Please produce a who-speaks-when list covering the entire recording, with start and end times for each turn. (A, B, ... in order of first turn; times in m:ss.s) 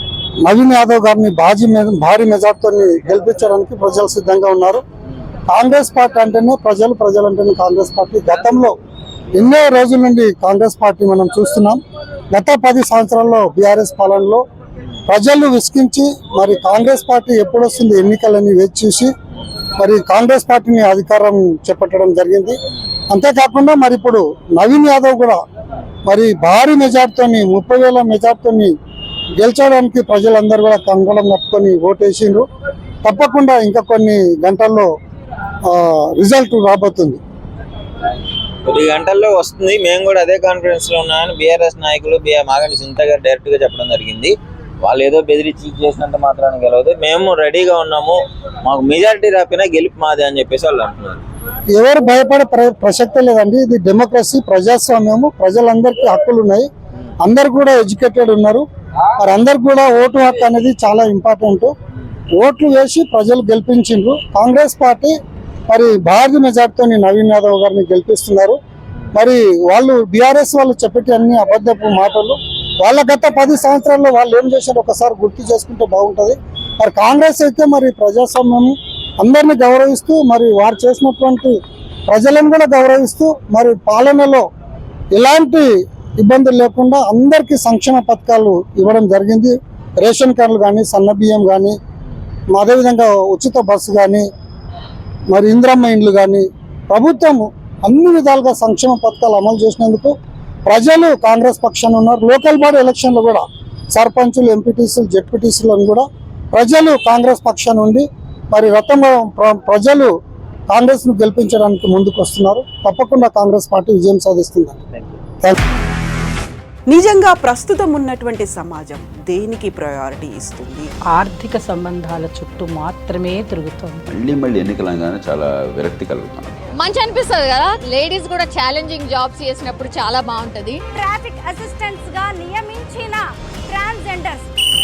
0:00.4-0:04.8 A
0:05.5-0:08.7 A
0:09.3-0:11.8 A
0:12.3-0:14.4 A
0:15.1-0:19.1 A
0:19.8-0:22.6 A
0:23.1-0:25.4 A
0:26.0-0:28.7 A
0:29.4-0:32.4 A
0:33.0-0:34.9 A
0:35.7-0:37.2 A
0:38.6-0:51.2 B
0:51.7-0:56.7 A
0:57.2-0:58.6 A
0:59.2-1:01.7 A
1:02.4-1:05.1 A
1:05.7-1:08.6 A
1:09.1-1:21.5 A
1:22.1-1:24.4 A
1:25.1-1:31.8 A
1:32.5-1:34.2 A
1:35.3-1:40.1 A
1:40.7-1:50.1 A
1:50.7-1:54.8 A
1:56.9-2:00.9 C
2:01.1-2:04.0 D
2:04.1-2:06.5 E
2:06.8-2:10.8 F
2:10.9-2:14.5 G